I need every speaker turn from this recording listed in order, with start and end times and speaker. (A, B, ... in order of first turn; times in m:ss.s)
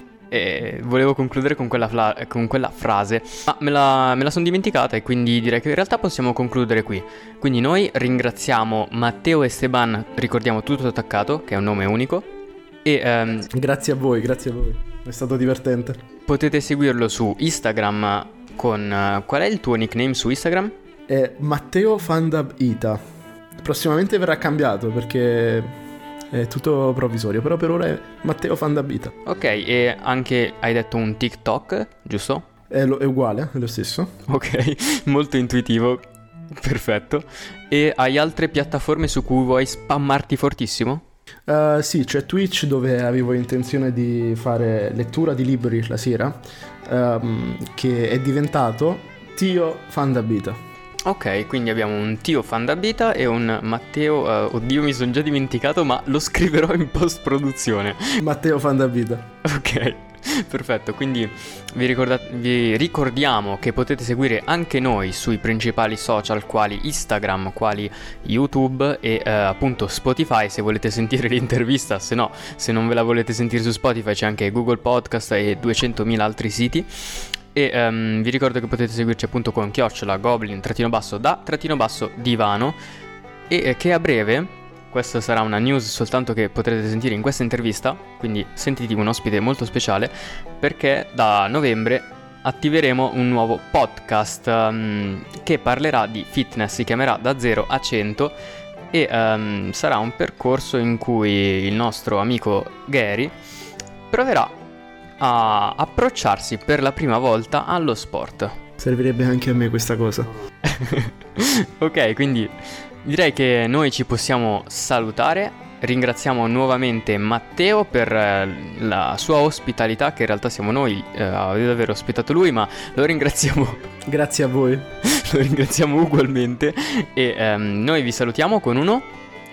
0:00.3-0:12.2 A
0:12.8-0:13.5 A
0:13.5-0:16.0 B
0:16.3-0:20.7 A
0:21.1-0:23.0 B
0:23.6-0:25.7 B
0:26.3-0:29.1 B
0:29.2-0:32.4 A
0:32.7-0:34.1 B
0:34.3-0:41.0 A
0:41.5-0:50.6 B
0:51.0-0:58.2 A
0:58.2-0:59.3 B
0:59.4-1:22.8 A
1:23.5-1:38.4 A
1:38.9-1:43.3 A
1:44.1-1:44.6 A
1:45.2-1:48.6 A
1:48.8-1:50.3 B
1:50.6-2:03.8 A
2:04.0-2:04.9 B
2:05.0-2:09.1 A